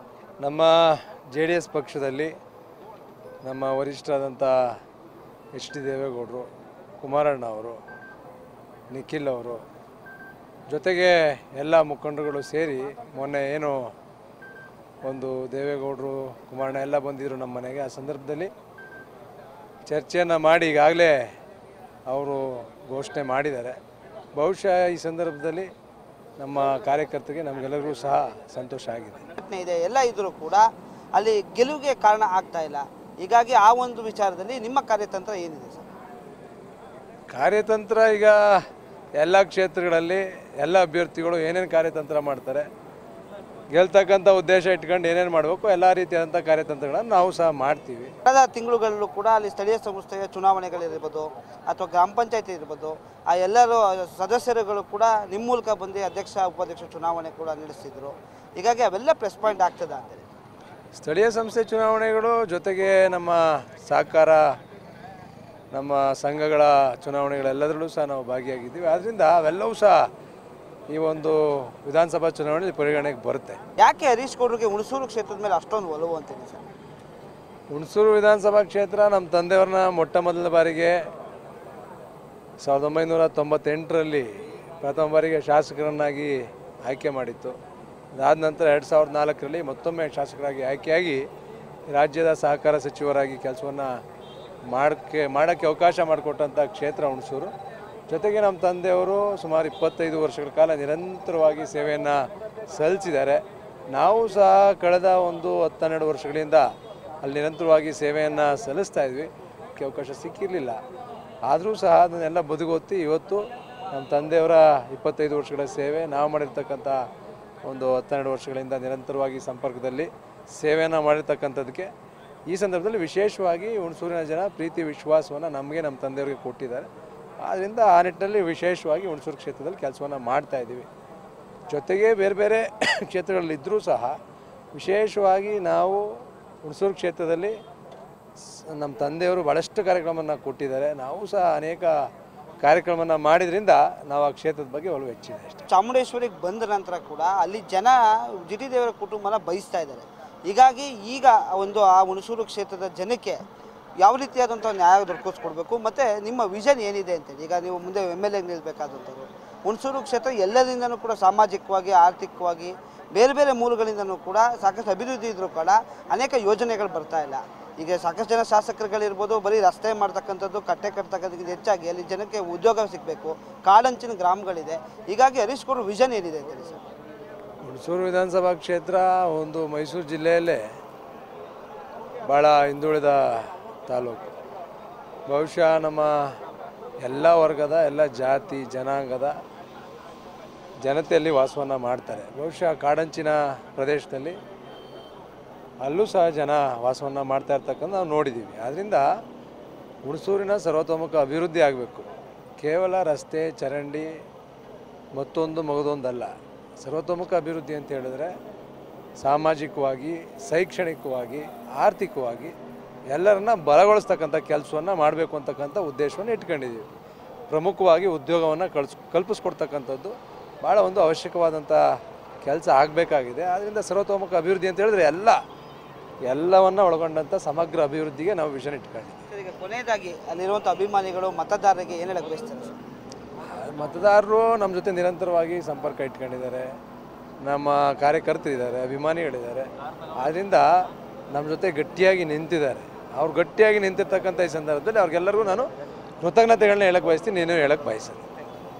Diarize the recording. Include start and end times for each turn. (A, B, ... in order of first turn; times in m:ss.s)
0:00.4-0:02.3 A
0:03.4-0:04.5 A
0:05.6-0:06.5 A
0:07.0-0:07.8 A
0:08.9-0:09.6 A
0:10.7-0:13.8 A
0:15.0-0:18.5 A
0:19.9-0:21.2 A
0:22.1-0:23.8 A
0:24.4-0:25.7 A
0:26.4-0:29.2 A
0:29.4-0:35.9 B
0:37.3-0:38.6 A
0:39.2-0:42.7 A
0:43.7-0:48.1 A
0:48.2-1:00.3 B
1:00.9-1:04.5 A
1:05.7-1:10.0 A
1:10.9-1:13.6 A
1:13.8-1:16.6 B
1:17.7-1:21.0 A
1:22.6-1:24.3 A
1:24.8-1:27.6 A
1:28.2-1:31.2 A
1:31.9-1:33.9 A
1:34.7-1:37.5 A
1:38.1-1:46.7 A
1:47.2-1:50.8 A
1:51.5-1:57.0 A
1:57.6-2:01.9 A
2:02.5-2:06.9 A
2:07.4-2:10.9 A
2:11.7-2:14.2 A
2:14.7-2:16.0 A
2:16.6-2:17.6 A
2:18.7-2:21.9 A
2:22.6-2:25.7 A
2:25.7-2:33.4 B
2:34.0-2:56.9 B
2:57.6-3:00.6 A
3:02.3-3:04.3 A
3:05.3-3:06.1 A
3:07.0-3:09.4 A
3:10.8-3:14.4 A
3:15.8-3:19.1 A
3:20.0-3:22.1 A
3:22.6-3:24.1 A
3:25.2-3:28.3 A
3:29.2-3:32.5 A
3:33.1-3:36.9 A
3:37.5-3:41.8 A
3:42.4-3:45.4 A
3:46.3-3:49.2 A
3:49.3-3:52.8 B
3:53.5-3:56.7 A
3:57.4-4:00.7 A
4:01.3-4:05.7 A
4:06.2-4:08.2 A